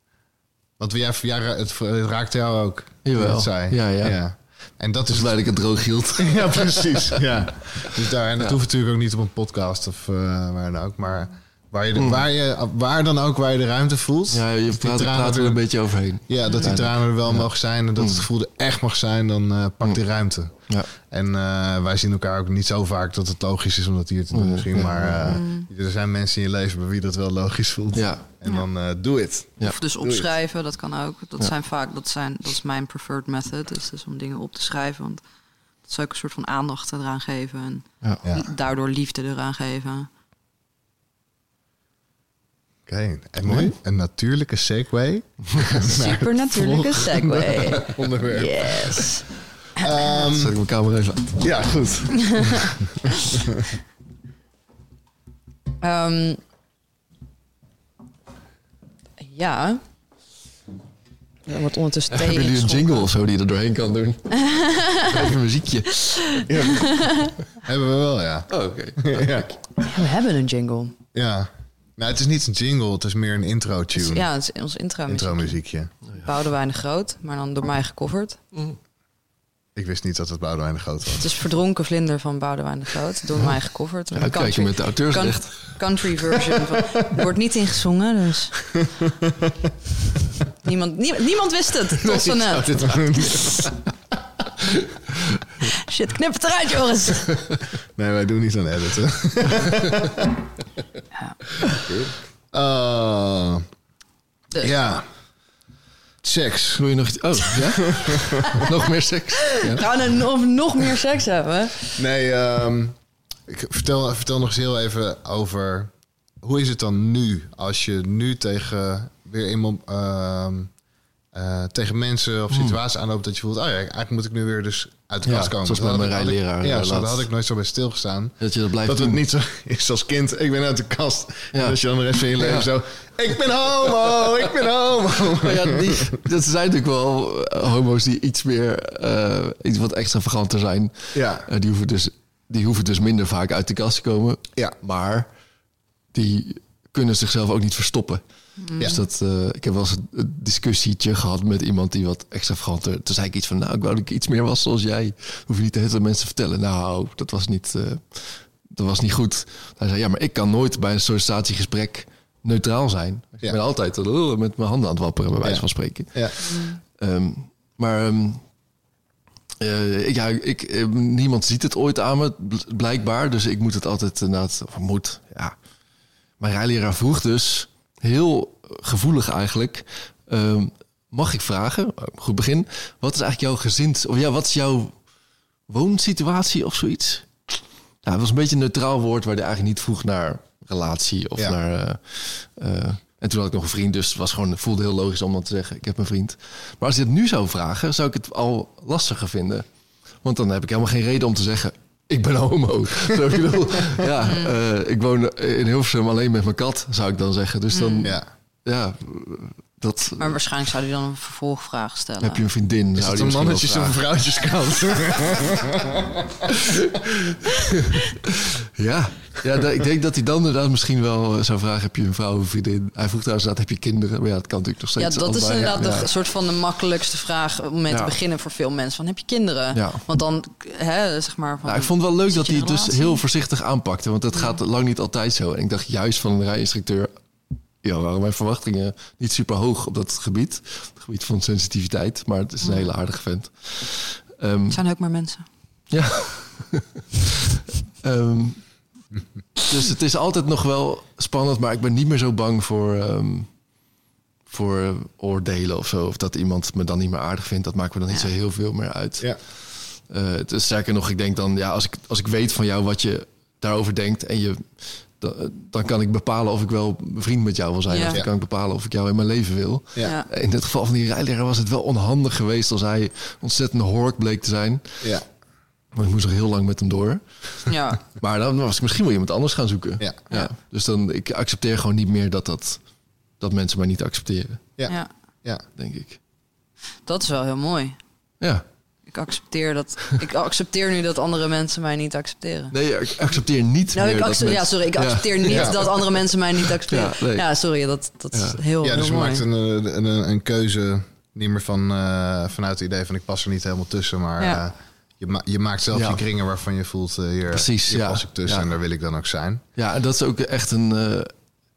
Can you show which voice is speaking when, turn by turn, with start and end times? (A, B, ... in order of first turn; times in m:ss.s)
0:00.8-0:05.5 A
0:03.0-0:04.2 B
0:05.1-0:07.2 B
0:06.2-0:30.3 A
0:12.0-0:12.3 B
0:14.3-0:18.2 B
0:16.4-0:16.7 C
0:20.6-0:20.9 B
0:24.3-0:25.4 B
0:25.3-0:25.7 C
0:27.9-0:28.2 B
0:29.6-0:35.2 C
0:35.8-0:40.1 C
0:42.9-0:49.1 A
0:43.5-0:43.8 B
0:45.9-0:50.2 C
0:47.2-0:47.5 B
0:49.8-0:50.6 A
0:50.3-0:51.7 B
0:51.4-0:53.6 A
0:52.2-0:52.7 C
0:55.8-0:56.4 C
0:59.2-0:59.8 C
1:01.5-1:03.1 C
1:02.1-1:06.2 B
1:04.4-1:05.3 C
1:05.9-1:07.4 C
1:06.5-1:09.9 A
1:08.5-1:09.5 B
1:09.8-1:11.0 C
1:11.1-1:14.3 A
1:14.0-1:18.4 C
1:15.1-1:15.9 A
1:18.5-1:18.8 B
1:19.8-1:21.3 A
1:21.2-1:28.7 C
1:24.1-1:25.8 B
1:29.1-1:29.5 A
1:30.6-1:33.6 C
1:32.1-1:33.8 A
1:35.6-1:37.3 C
1:38.0-1:40.4 A
1:41.7-1:43.7 A
1:44.6-1:45.1 A
1:46.2-1:48.6 A
1:46.8-1:49.9 B
1:49.5-1:52.0 C
1:52.0-1:53.0 A
1:53.5-2:00.7 A
2:01.3-2:16.2 A
2:02.5-2:02.8 B
2:05.2-2:07.3 B
2:08.4-2:09.2 B
2:11.5-2:11.8 B
2:12.4-2:12.7 B
2:14.1-2:14.5 B
2:15.4-2:25.3 B
2:21.1-2:21.5 A
2:26.1-2:48.4 B
2:28.6-2:29.0 C
2:45.4-2:46.4 A
2:46.4-2:46.8 C
2:49.6-2:55.6 B
2:56.4-3:05.0 B
3:05.7-3:30.4 B
3:24.2-3:24.5 C
3:27.7-3:28.2 C
3:30.2-3:32.4 C
3:32.2-3:34.0 B
3:33.0-3:36.5 A
3:38.6-3:46.1 B
3:45.0-3:53.2 C
3:45.5-3:46.1 A
3:47.9-3:48.1 B
3:49.7-3:50.0 B
3:51.6-3:57.1 B
3:57.8-4:04.8 B
4:02.6-4:02.9 C
4:04.7-4:05.5 C
4:05.9-4:07.0 B
4:08.0-4:08.9 B
4:09.7-4:13.6 B
4:14.5-4:35.1 B
4:27.9-4:28.2 C
4:30.0-4:30.3 C
4:35.0-4:35.3 A
4:35.9-4:42.9 B
4:37.7-4:38.0 C
4:40.0-4:40.3 A
4:43.4-4:44.8 B
4:44.8-4:45.6 A
4:45.8-4:46.2 B
4:47.0-4:48.0 C
4:49.1-4:52.8 C
4:52.7-4:56.4 B
4:53.9-4:59.4 C
4:55.5-4:55.8 A
4:56.9-4:57.5 B
4:58.3-4:58.6 B
4:58.8-5:09.6 A
5:05.9-5:06.2 B
5:07.5-5:08.7 B
5:09.8-5:11.3 B